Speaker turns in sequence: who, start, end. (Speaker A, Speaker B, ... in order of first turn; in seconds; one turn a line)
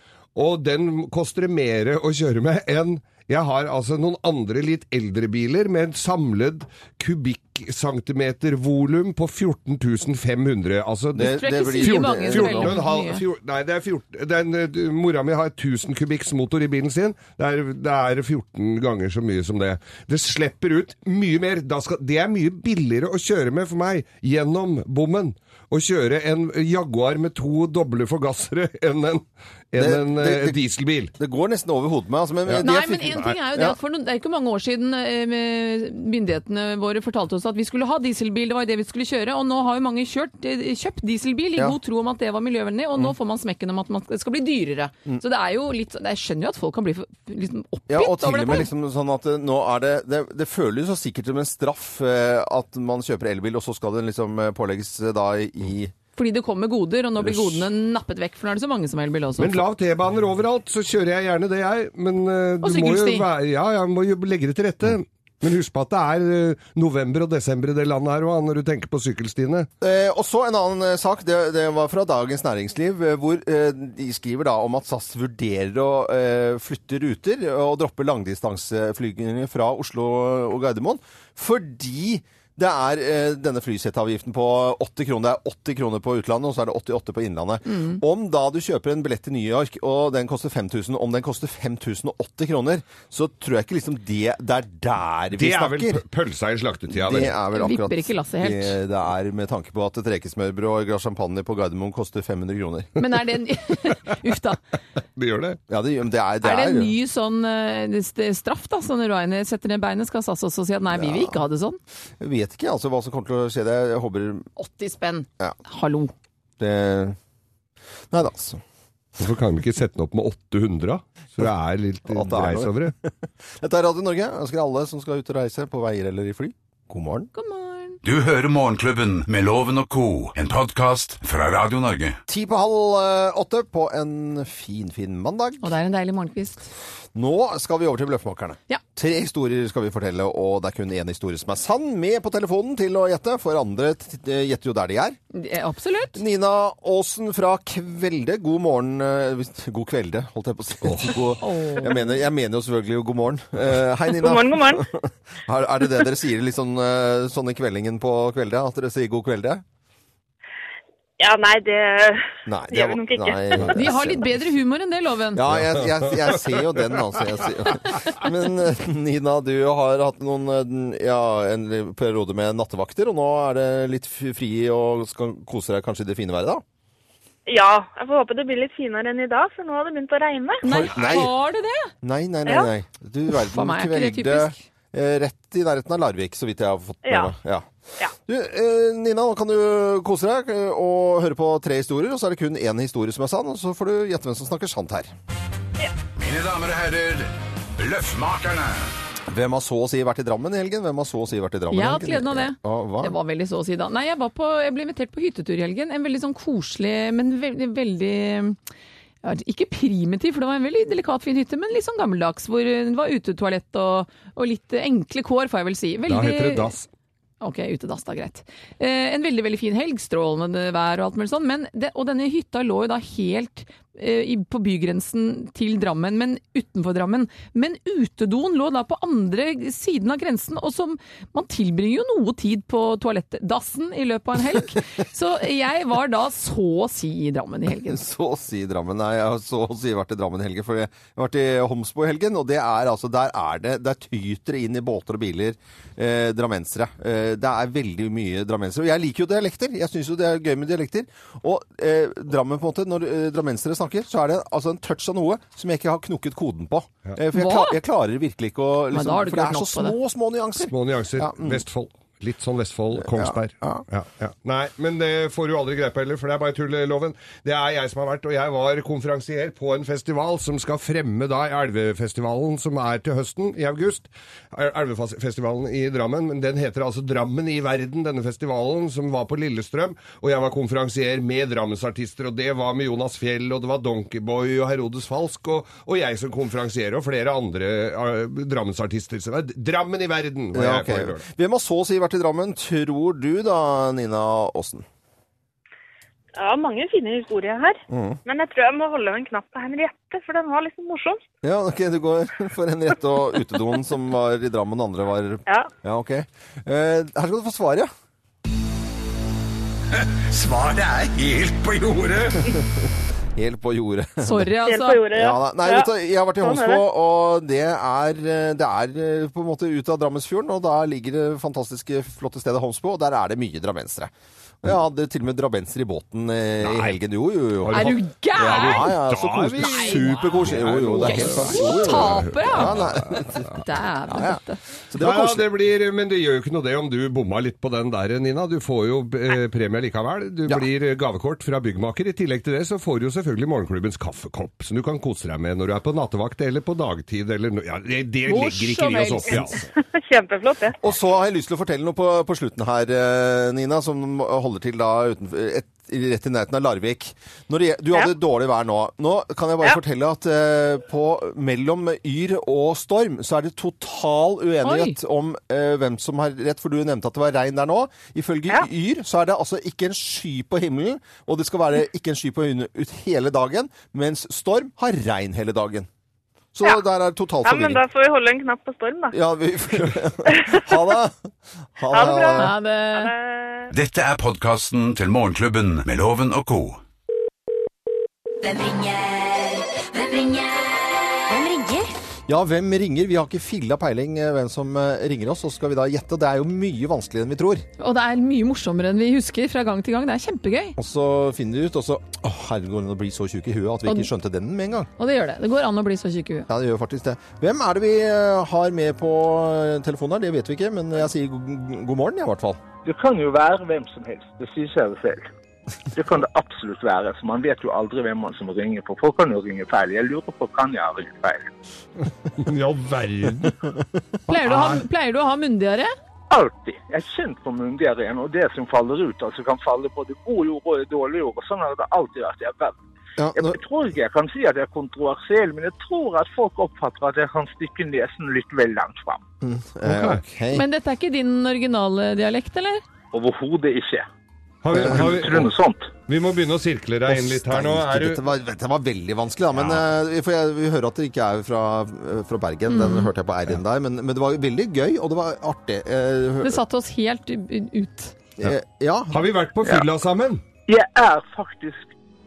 Speaker A: 0.3-31.1
Speaker B: 11.1-12.8
Speaker C: 11.2-13.2
Speaker B: 29.8-30.6
Speaker B: 31.1-33.8
Speaker C: 32.6-48.7
Speaker B: 47.9-55.9
Speaker C: 56.1-59.6
Speaker A: 59.4-69.7
Speaker C: 62.6-63.2
Speaker B: 69.8-96.0
Speaker C: 87.7-88.0
Speaker A: 95.3-97.3
Speaker B: 96.9-103.0
Speaker C: 97.5-98.8
Speaker C: 103.0-104.6
Speaker A: 105.2-105.6
Speaker B: 105.7-106.9
Speaker C: 106.4-111.8
Speaker B: 110.9-111.4
Speaker B: 112.2-114.5
Speaker C: 114.6-116.1
Speaker B: 116.6-117.2
Speaker B: 118.1-118.6
Speaker A: 119.2-122.9
Speaker B: 122.1-127.3
Speaker C: 127.3-128.0
Speaker D: 128.0-132.2
Speaker B: 132.3-135.7
Speaker C: 135.6-136.6
Speaker B: 137.1-145.2
Speaker C: 145.3-146.2
Speaker B: 146.1-159.6
Speaker A: 150.8-151.2
Speaker C: 151.4-152.0
Speaker E: 154.1-154.8
Speaker E: 161.2-163.6
Speaker B: 162.4-164.4
Speaker C: 163.7-165.4
Speaker B: 165.3-176.6
Speaker A: 165.5-167.1
Speaker E: 177.5-180.6
Speaker C: 180.6-181.9
Speaker B: 180.6-181.3
Speaker B: 182.0-187.7
Speaker C: 183.3-184.6
Speaker E: 187.0-187.3
Speaker B: 188.2-195.1
Speaker D: 196.1-198.9
Speaker B: 199.3-203.1
Speaker C: 201.7-208.6
Speaker C: 209.2-216.7
Speaker A: 216.1-216.9
Speaker C: 217.4-238.0
Speaker B: 237.8-261.6
Speaker C: 257.3-257.8
Speaker C: 258.9-259.9
Speaker A: 260.6-291.2
Speaker B: 262.9-263.8
Speaker B: 290.5-294.8
Speaker E: 296.4-301.2
Speaker B: 297.9-298.2
Speaker B: 301.4-307.9
Speaker D: 310.0-312.5
Speaker B: 313.4-314.5
Speaker C: 314.2-315.0
Speaker E: 314.6-315.9
Speaker B: 315.1-333.5
Speaker E: 316.4-316.8
Speaker A: 326.6-327.0
Speaker A: 327.6-333.6
Speaker C: 327.7-329.0
Speaker C: 329.6-330.3
Speaker C: 331.0-334.6
Speaker B: 334.1-335.5
Speaker A: 335.0-349.6
Speaker C: 348.3-349.5
Speaker E: 349.7-350.8
Speaker B: 350.8-375.9
Speaker C: 364.6-365.0
Speaker B: 376.5-377.8
Speaker E: 377.4-379.1
Speaker B: 379.1-381.2
Speaker B: 381.8-382.5
Speaker E: 381.9-383.7
Speaker C: 382.4-383.1
Speaker D: 383.7-386.8
Speaker F: 388.4-391.9
Speaker B: 392.3-397.6
Speaker C: 397.8-400.8
Speaker B: 400.8-404.9
Speaker C: 405.0-406.5
Speaker B: 406.5-412.6
Speaker G: 412.8-415.3
Speaker G: 415.9-421.5
Speaker A: 422.3-423.6
Speaker C: 424.3-425.9
Speaker A: 424.4-424.8
Speaker G: 426.3-432.8
Speaker B: 433.2-433.6
Speaker G: 433.3-439.2
Speaker B: 439.4-440.6
Speaker A: 439.8-440.2
Speaker C: 440.5-442.8
Speaker G: 443.1-444.1
Speaker A: 444.6-445.5
Speaker B: 444.7-445.0
Speaker G: 444.7-445.9
Speaker A: 446.1-448.2
Speaker B: 447.1-456.6
Speaker A: 449.5-449.8
Speaker C: 452.7-453.1
Speaker C: 456.4-458.1
Speaker B: 458.4-459.2
Speaker A: 459.1-460.4
Speaker G: 460.7-461.9